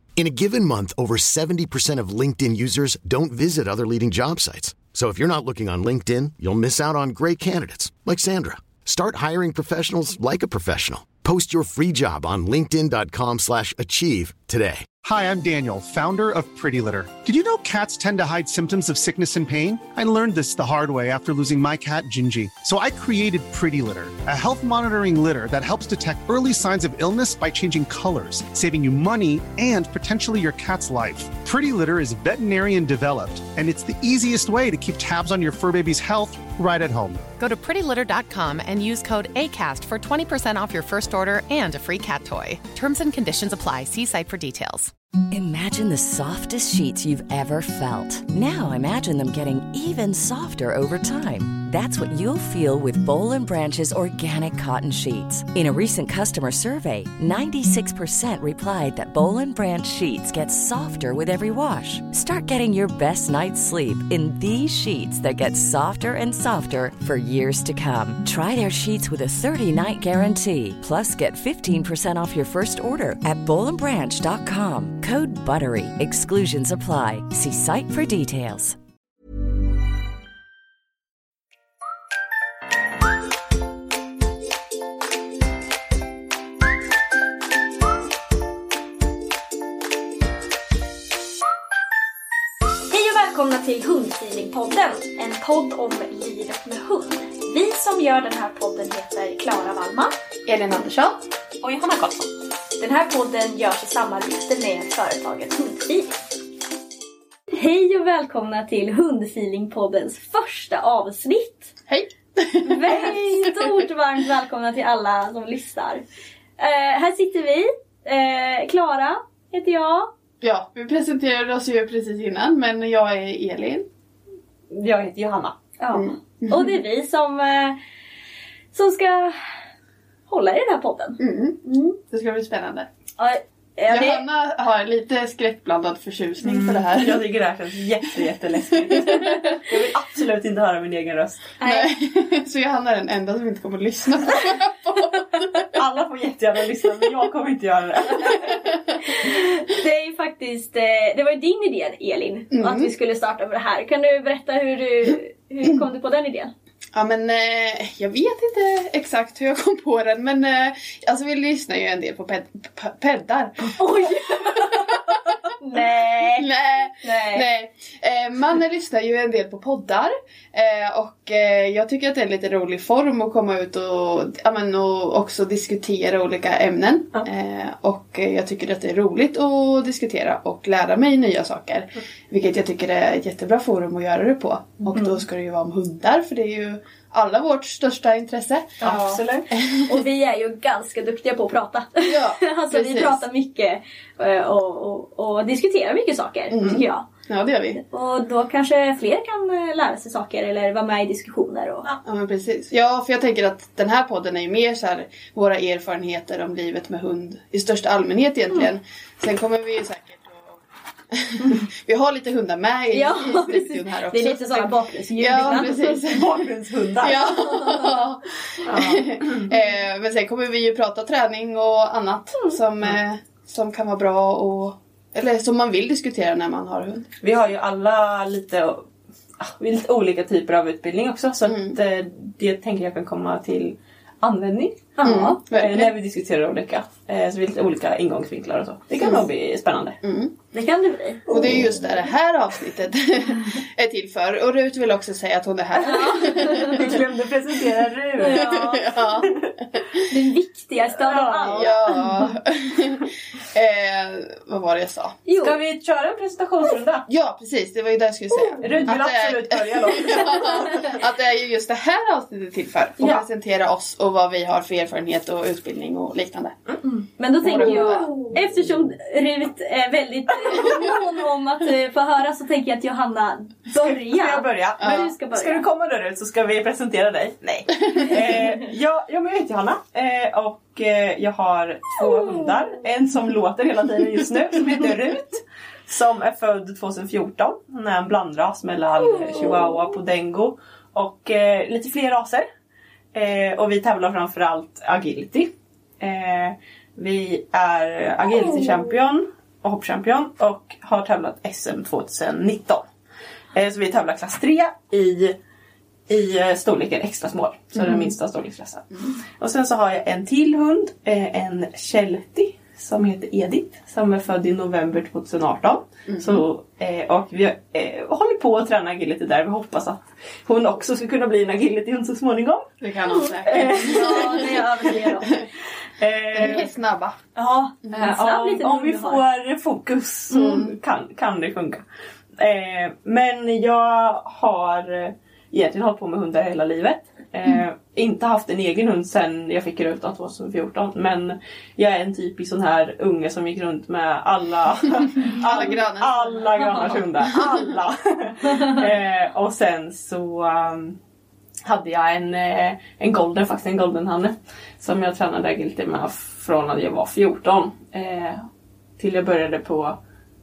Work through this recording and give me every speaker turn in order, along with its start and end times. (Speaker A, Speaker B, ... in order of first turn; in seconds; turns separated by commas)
Speaker A: 0.1-14.9, Speaker B: 15.0-37.2, Speaker C: 37.4-44.9, Speaker D: 45.3-78.8, Speaker E: 92.9-100.1, Speaker F: 100.5-101.2, Speaker G: 101.6-102.3, Speaker E: 102.8-106.1, Speaker E: 107.5-111.7, Speaker F: 111.9-113.7, Speaker E: 112.6-116.0, Speaker E: 116.6-120.1, Speaker F: 120.4-123.8, Speaker G: 124.7-125.5, Speaker E: 125.8-127.8, Speaker F: 125.9-126.8, Speaker E: 128.7-129.4, Speaker E: 130.3-132.0, Speaker F: 131.2-132.9, Speaker E: 133.2-134.2, Speaker F: 133.9-137.2, Speaker G: 136.4-141.5, Speaker F: 138.8-139.1, Speaker E: 141.6-141.9, Speaker F: 141.6-145.5, Speaker G: 145.7-148.6, Speaker E: 149.0-156.5, Speaker F: 152.5-152.9, Speaker F: 156.9-164.6, Speaker E: 163.6-166.5, Speaker F: 166.3-189.9, Speaker E: 167.0-167.4, Speaker G: 188.8-189.5, Speaker E: 189.7-197.1, Speaker F: 192.0-193.2, Speaker F: 196.5-197.8, Speaker E: 197.7-201.9, Speaker F: 202.0-216.3, Speaker E: 212.9-216.0, Speaker G: 216.0-217.4, Speaker F: 217.0-227.1, Speaker E: 217.3-217.9, Speaker G: 218.6-219.5, Speaker G: 227.2-228.8, Speaker G: 229.4-235.0, Speaker F: 231.5-231.8, Speaker E: 235.0-235.4, Speaker F: 235.0-235.9, Speaker G: 235.5-240.0, Speaker F: 239.0-239.2, Speaker F: 240.0-240.3, Speaker E: 240.5-241.3, Speaker G: 241.3-242.0, Speaker F: 241.3-247.0, Speaker E: 245.8-246.8, Speaker G: 246.4-248.6, Speaker E: 248.2-248.9, Speaker F: 248.2-249.8, Speaker G: 249.2-249.5, Speaker E: 250.0-252.2, Speaker G: 251.0-251.8, Speaker F: 251.5-255.2, Speaker E: 255.2-255.6, Speaker G: 255.4-257.1, Speaker F: 257.1-266.6, Speaker G: 258.6-260.8, Speaker E: 260.4-260.9, Speaker E: 266.8-275.6, Speaker F: 267.4-268.2, Speaker G: 267.5-268.1, Speaker G: 273.7-292.4, Speaker F: 274.8-275.1, Speaker G: 293.1-302.8, Speaker G: 303.5-305.4, Speaker G: 306.1-322.7, Speaker F: 307.8-308.1, Speaker F: 316.1-316.4, Speaker F: 322.8-324.4, Speaker E: 323.2-325.4, Speaker G: 323.4-324.9, Speaker G: 326.0-326.7, Speaker F: 326.3-327.1, Speaker E: 327.3-329.2, Speaker G: 327.9-331.8, Speaker F: 330.3-330.7, Speaker G: 332.4-351.0, Speaker F: 345.4-347.3, Speaker G: 351.6-358.5, Speaker G: 359.0-360.0